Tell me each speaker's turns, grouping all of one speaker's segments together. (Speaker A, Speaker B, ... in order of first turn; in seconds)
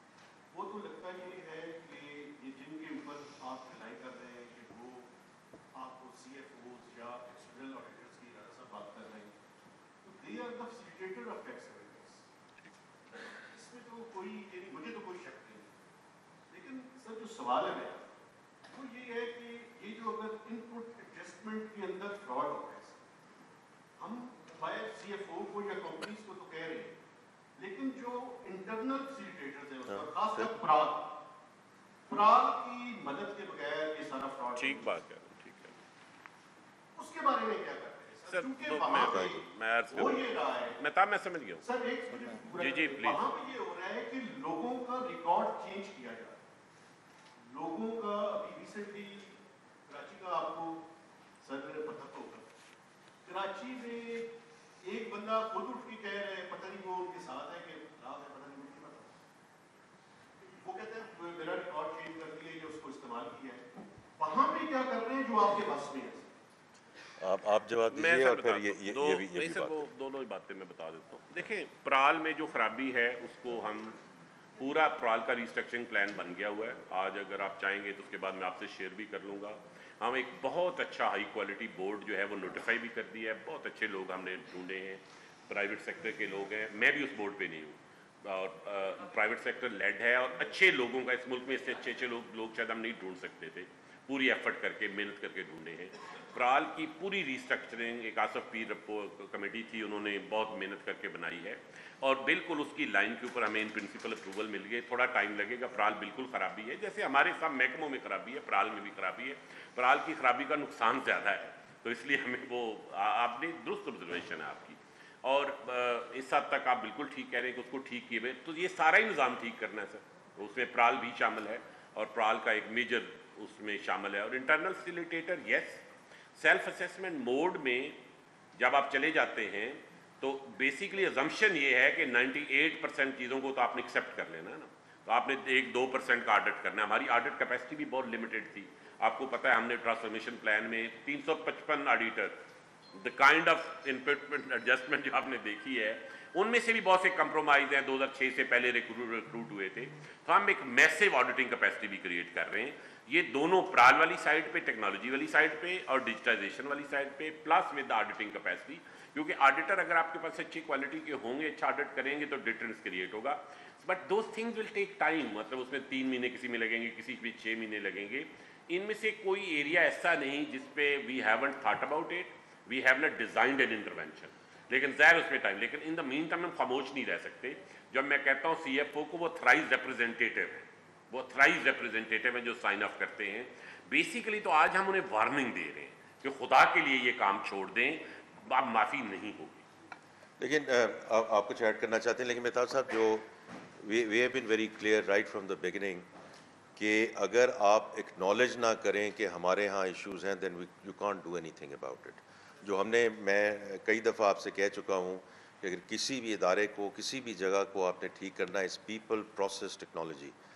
Speaker A: 0.5-5.1, 5.7-9.4, 10.0-12.2, 13.2-15.8, 16.5-18.2, 18.7-23.0, 24.0-27.0, 27.6-31.2, 32.1-34.9, 36.9-40.8, 41.6-46.4, 47.5-50.9, 51.4-52.5, 53.2-59.1, 60.4-66.3
Speaker B: 29.9-30.5, 38.9-39.4, 67.2-69.8, 190.4-193.2, 193.8-196.1, 196.8-210.3
Speaker C: 34.5-35.8, 38.3-41.6, 42.3-43.2, 67.9-74.0, 74.6-125.8, 126.4-128.0, 128.6-142.4, 142.9-189.7